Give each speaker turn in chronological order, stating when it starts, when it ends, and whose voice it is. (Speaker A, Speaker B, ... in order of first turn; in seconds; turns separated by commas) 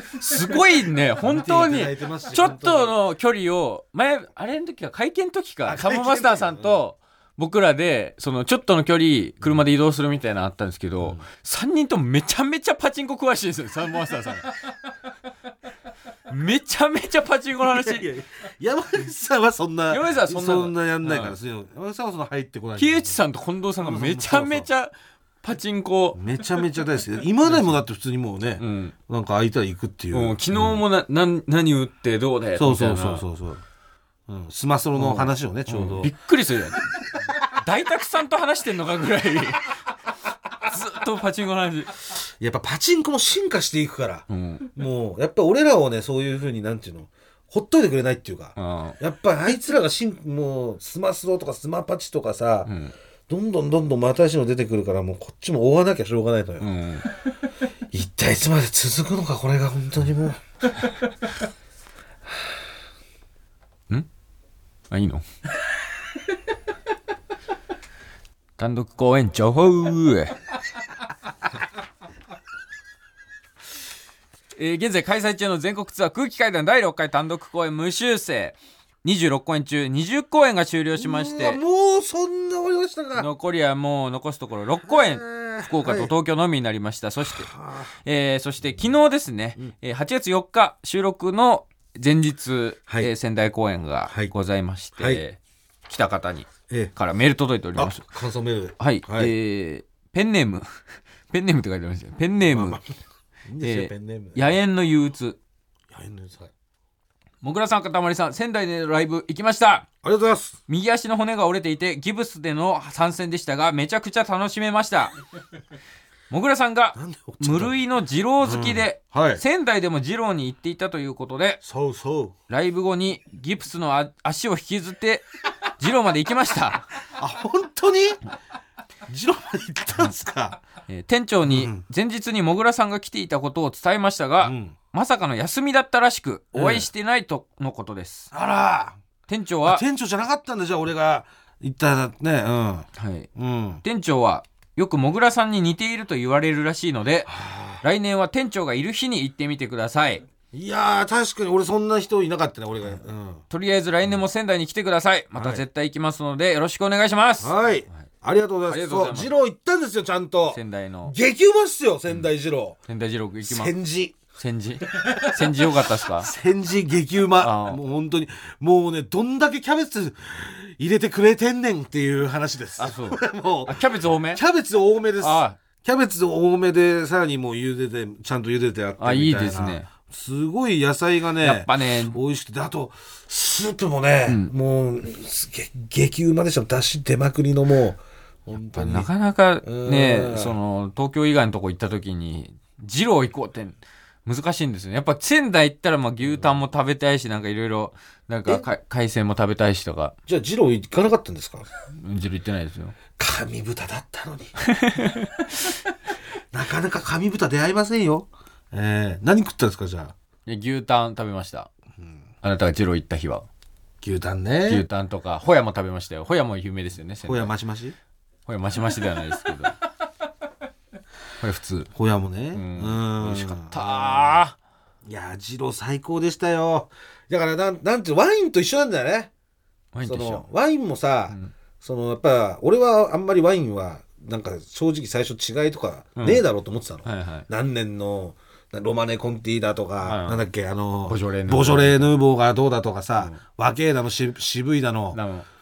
Speaker A: 0.2-14.5, Speaker B: 1.2-3.0, Speaker B: 5.7-6.8, Speaker A: 16.3-18.1, Speaker B: 17.7-23.2, Speaker A: 19.9-21.3, Speaker A: 22.8-26.2, Speaker B: 23.8-24.7, Speaker B: 26.1-30.8, Speaker A: 27.5-27.7, Speaker A: 28.6-28.9, Speaker A: 30.1-33.2, Speaker B: 32.6-33.6, Speaker B: 34.3-36.1, Speaker A: 35.0-36.9, Speaker A: 37.5-39.8, Speaker A: 40.7-41.9, Speaker B: 42.2-52.7, Speaker A: 44.3-44.7, Speaker A: 48.6-49.0, Speaker A: 52.7-52.9, Speaker B: 53.3-56.7, Speaker A: 56.6-57.1, Speaker B: 57.9-60.4, Speaker A: 64.9-65.2, Speaker A: 68.6-70.4, Speaker A: 74.6-81.6, Speaker B: 81.0-83.3, Speaker A: 83.2-98.1, Speaker B: 84.9-86.1, Speaker B: 87.3-87.9, Speaker B: 97.8-99.3, Speaker A: 98.8-100.7, Speaker A: 101.3-102.8, Speaker B: 102.5-102.9, Speaker B: 103.5-104.6, Speaker A: 103.6-105.4, Speaker B: 105.9-106.5, Speaker A: 107.4-109.9, Speaker B: 110.0-110.6, Speaker A: 110.7-115.2, Speaker A: 116.3-121.6, Speaker B: 117.0-117.8, Speaker B: 118.4-119.4, Speaker B: 121.6-122.3, Speaker A: 122.5-125.3, Speaker A: 125.8-126.9, Speaker B: 127.1-128.2, Speaker B: 129.1-130.6, Speaker A: 130.9-138.3, Speaker B: 131.5-131.8, Speaker B: 134.4-134.8, Speaker B: 136.5-136.9, Speaker B: 138.3-139.0, Speaker A: 139.3-139.8, Speaker B: 139.6-143.8, Speaker A: 143.0-143.3, Speaker A: 143.8-150.2, Speaker B: 147.3-147.8, Speaker B: 150.5-153.4, Speaker A: 153.5-158.1, Speaker B: 155.4-155.6, Speaker B: 157.4-162.8, Speaker A: 158.7-159.3, Speaker A: 160.5-161.2, Speaker A: 162.9-163.7, Speaker B: 163.4-164.2, Speaker A: 164.3-166.3, Speaker B: 166.2-189.1, Speaker A: 167.4-167.8, Speaker A: 172.8-174.4, Speaker A: 175.2-175.6, Speaker A: 179.0-179.9, Speaker A: 181.4-182.2, Speaker A: 184.3-184.5, Speaker A: 188.7-200.2, Speaker B: 189.6-190.5, Speaker B: 200.3-201.7, Speaker A: 201.9-202.9, Speaker B: 203.2-204.5, Speaker A: 204.6-205.7, Speaker B: 206.5-210.1, Speaker A: 210.5-211.7, Speaker A: 212.4-213.5, Speaker B: 214.0-214.9, Speaker A: 214.7-217.5, Speaker B: 217.2-218.0, Speaker A: 218.5-219.8, Speaker A: 221.4-221.9, Speaker B: 221.9-224.4, Speaker A: 222.5-224.6, Speaker B: 225.1-229.3, Speaker A: 229.9-230.5, Speaker B: 230.1-245.2, Speaker A: 236.2-236.4, Speaker A: 237.0-237.5, Speaker A: 240.0-240.4, Speaker A: 241.1-242.1, Speaker A: 245.1-245.5